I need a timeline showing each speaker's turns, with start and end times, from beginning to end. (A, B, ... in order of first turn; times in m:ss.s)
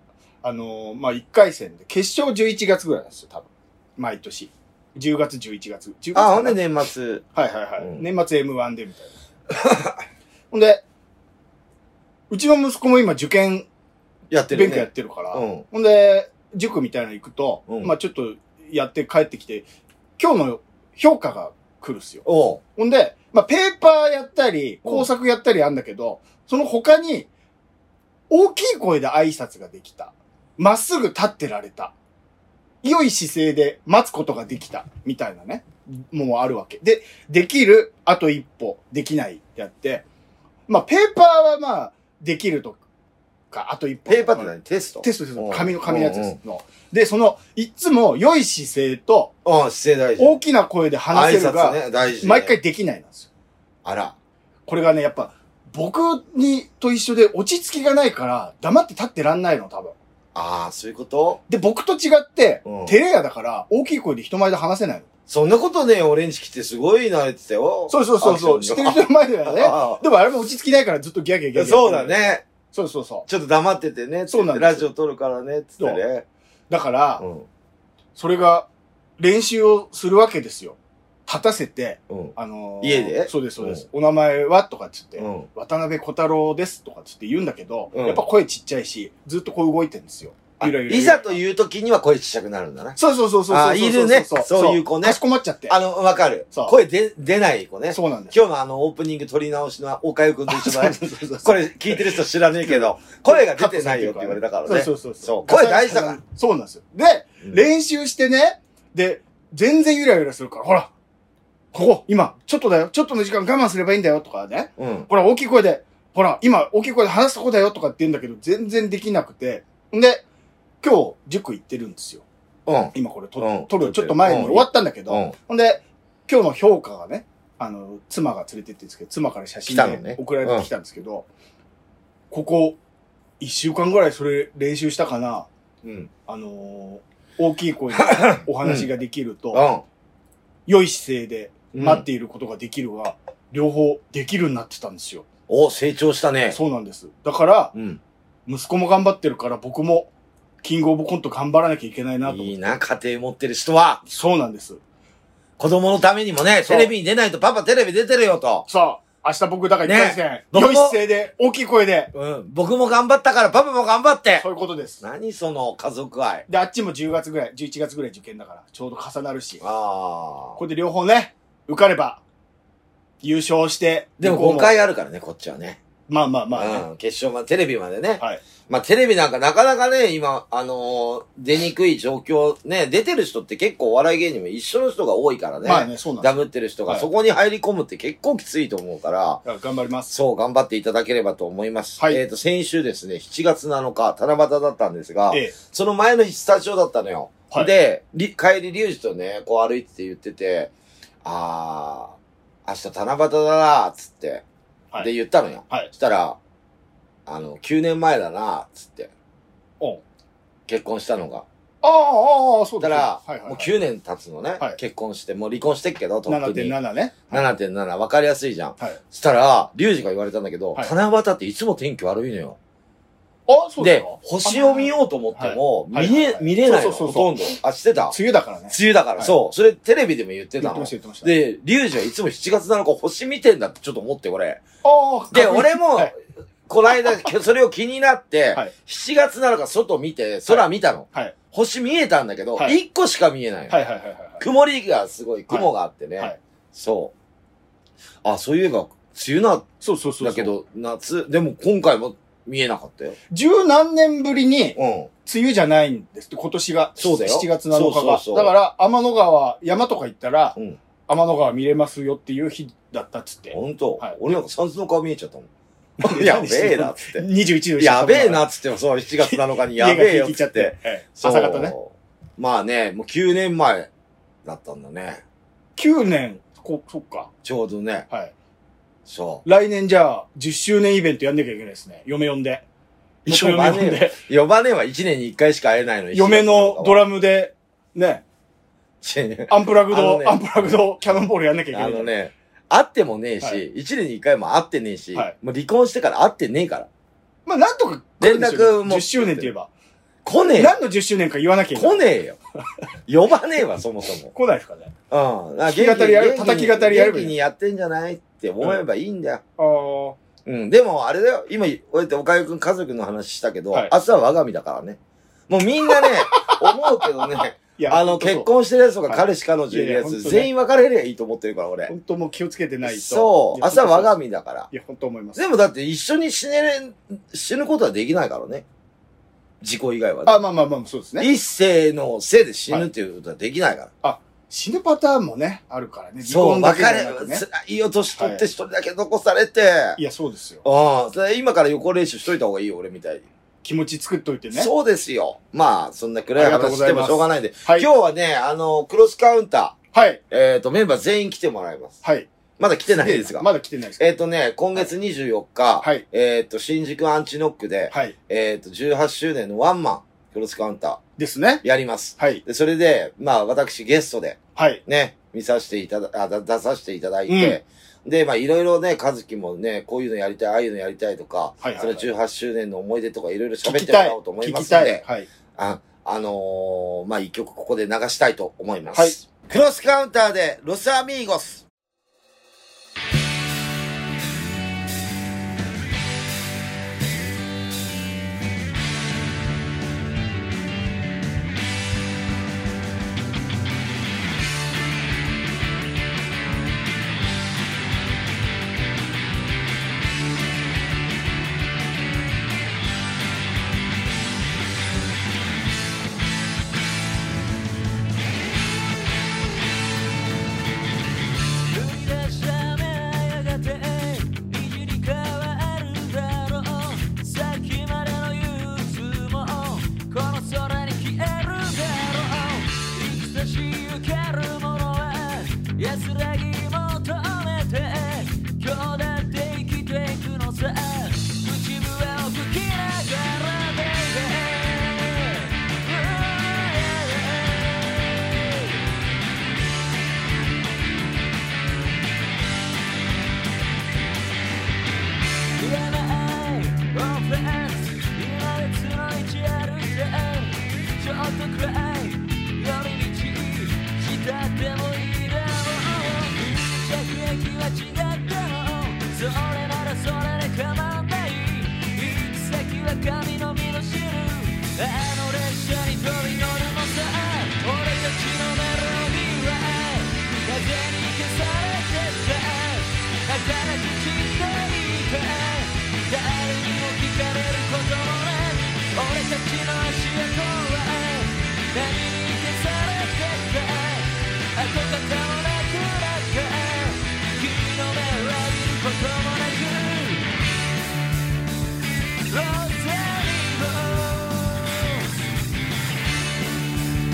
0:00.4-0:06.6 A
0:06.1-0:07.2 B
0:07.3-0:09.1 A
0:07.8-0:08.0 B
0:09.5-0:10.0 B
0:10.5-0:10.8 A
0:12.3-0:13.7 A
0:14.3-0:15.6 B
0:14.5-0:22.2 A
0:17.7-0:17.9 B
0:22.2-0:22.6 B
0:22.8-0:27.3 A
0:28.3-0:31.9 A
0:32.8-0:40.0 A
0:40.7-0:42.8 A
0:43.5-0:49.3 A
0:44.1-0:46.4 B
0:49.4-0:50.4 B
0:50.2-0:53.3 A
0:51.1-0:52.6 B
0:53.8-0:54.2 B
0:54.7-1:00.0 A
1:00.3-1:01.4 B
1:01.5-1:05.0 A
1:02.6-1:03.0 B
1:05.3-1:10.0 B
1:07.9-1:12.2 A
1:11.5-1:12.4 B
1:12.7-1:13.3 A
1:13.3-1:16.2 B
1:14.3-1:14.9 A
1:16.7-1:17.2 A
1:17.2-1:17.5 B
1:18.2-1:18.7 A
1:19.2-1:31.4 A
1:22.1-1:23.8 B
1:25.2-1:25.5 B
1:27.9-1:28.2 B
1:30.6-1:46.2 B
1:33.0-1:35.8 A
1:37.9-1:38.4 A
1:40.5-1:50.9 A
1:51.7-2:00.2 A
1:54.8-1:55.1 B
2:00.8-2:02.2 A
2:02.6-2:05.3 B
2:02.9-2:11.3 A
2:09.7-2:10.7 B
2:12.3-2:12.8 A
2:13.4-2:15.5 A
2:15.8-2:16.1 B
2:16.3-2:19.6 A
2:18.0-2:18.9 B
2:19.5-2:19.8 B
2:20.7-2:25.3 A
2:21.7-2:22.0 B
2:25.5-2:26.6 B
2:26.5-2:27.7 A
2:27.7-2:28.0 B
2:28.4-2:30.1 A
2:30.6-2:32.8 A
2:32.2-2:34.0 B
2:34.0-2:34.8 A
2:35.6-2:38.6 B
2:36.6-2:36.9 A
2:38.7-2:42.1 A
2:39.8-2:41.0 B
2:42.1-2:44.4 B
2:44.4-2:45.0 A
2:45.0-2:46.4 B
2:46.5-2:49.6 A
2:49.6-2:50.6 B
2:50.6-2:52.2 A
2:53.2-2:54.7 A
2:54.2-2:55.8 B
2:56.1-2:56.8 A
2:56.5-3:09.4 B
3:05.6-3:07.1 A
3:09.4-3:10.1 A
3:10.1-3:20.7 B
3:21.2-3:24.4 B
3:25.0-3:26.4 B
3:27.2-3:29.1 B
3:30.7-3:31.4 B
3:31.8-3:33.7 A
3:32.8-3:36.8 B
3:36.3-3:37.4 A
3:37.3-3:42.6 B
3:43.5-3:47.5 A
3:43.8-3:48.2 B
3:48.1-3:49.4 A
3:48.7-3:54.6 B
3:50.6-3:51.3 A
3:54.8-3:56.1 A
3:55.3-3:56.1 B
3:56.7-4:03.8 B
4:00.4-4:01.3 A
4:03.7-4:04.4 A
4:04.4-4:07.1 B
4:05.5-4:06.4 A
4:08.2-4:09.7 B
4:09.8-4:10.5 A
4:10.2-4:13.2 B
4:13.3-4:24.2 A
4:14.8-4:15.1 B
4:17.0-4:18.5 B
4:23.5-4:25.5 B
4:26.0-4:28.4 A
4:26.0-4:27.2 B
4:27.8-4:33.9 B
4:29.2-4:31.7 A
4:34.4-4:35.2 B
4:35.8-4:37.3 A
4:37.4-4:38.1 B
4:39.0-4:39.4 B
4:39.4-4:42.6 A
4:43.2-4:47.1 B
4:43.2-4:44.2 A
4:46.1-4:48.2 A
4:49.0-4:50.8 B
4:49.5-4:52.1 A
4:51.7-4:56.9 B
4:57.4-4:59.7 A
4:58.2-4:59.5 B
5:00.2-5:00.8 B
5:00.6-5:02.0 A
5:01.7-5:02.4 B
5:03.1-5:04.3 B
5:04.3-5:04.9 A
5:05.1-5:09.4 B
5:05.6-5:07.4 A
5:09.6-5:10.2 A
5:10.4-5:21.9 B
5:15.9-5:18.5 A
5:19.0-5:20.5 A
5:21.9-5:24.2 A
5:22.8-5:24.7 B
5:24.7-5:25.4 A
5:25.4-5:28.6 B
5:29.6-5:30.4 B
5:30.2-5:31.3 A
5:31.2-5:33.9 B
5:34.0-5:37.4 A
5:36.2-5:40.0 B
5:38.2-5:38.4 A
5:40.0-5:40.6 A
5:40.6-5:43.2 B
5:43.6-5:44.7 A
5:44.5-5:49.8 B
5:46.4-5:47.9 A
5:49.9-5:50.2 A
5:50.3-5:52.0 B
5:52.0-5:52.3 A
5:52.6-6:01.0 B
5:52.9-5:54.1 A
6:01.2-6:01.6 A
6:01.6-6:15.0 B
6:02.2-6:02.4 A
6:04.6-6:04.8 A
6:07.3-6:07.6 A
6:11.6-6:12.1 A
6:13.6-6:15.3 A
6:15.6-6:21.6 B
6:18.9-6:19.2 A
6:51.6-7:18.8 C
7:25.6-8:10.3 C
8:12.3-8:15.2 C